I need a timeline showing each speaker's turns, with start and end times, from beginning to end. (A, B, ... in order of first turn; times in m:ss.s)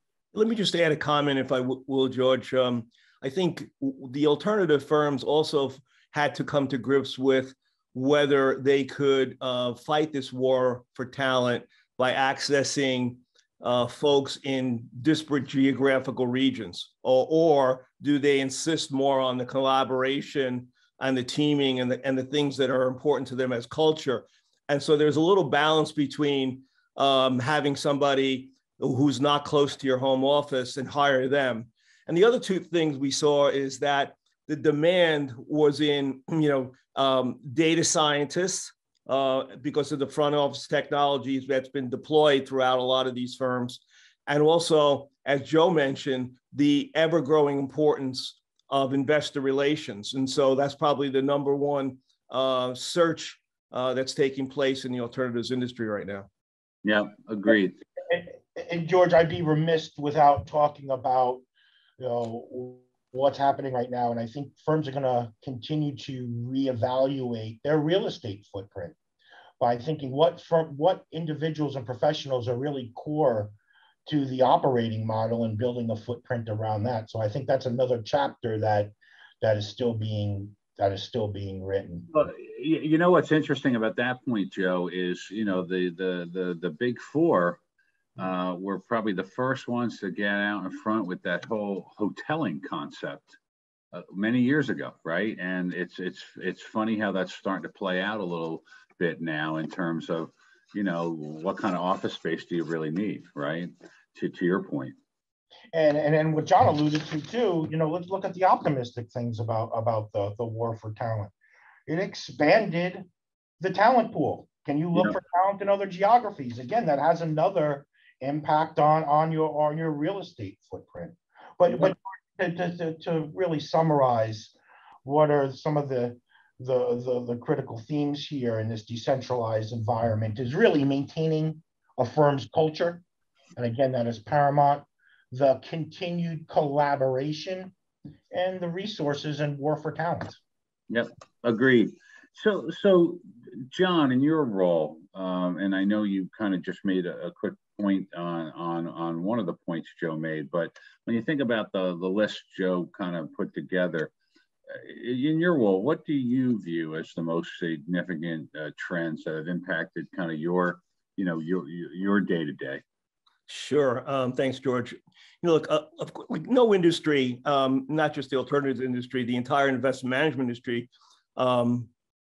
0:00.3-0:56.3 A
0:56.8-0:57.8 B
0:58.0-1:01.4 C
1:02.0-1:09.0 C
1:09.6-1:22.1 C
1:22.1-1:27.6 B
1:28.2-1:33.4 B
1:33.9-1:45.0 B
1:45.7-1:51.3 C
1:51.9-1:53.0 C
1:53.6-2:04.5 C
2:05.0-2:13.0 C
2:13.6-2:17.7 C
2:18.3-2:20.4 C
2:20.9-2:34.1 B
2:34.7-2:42.8 B
2:43.5-2:51.9 A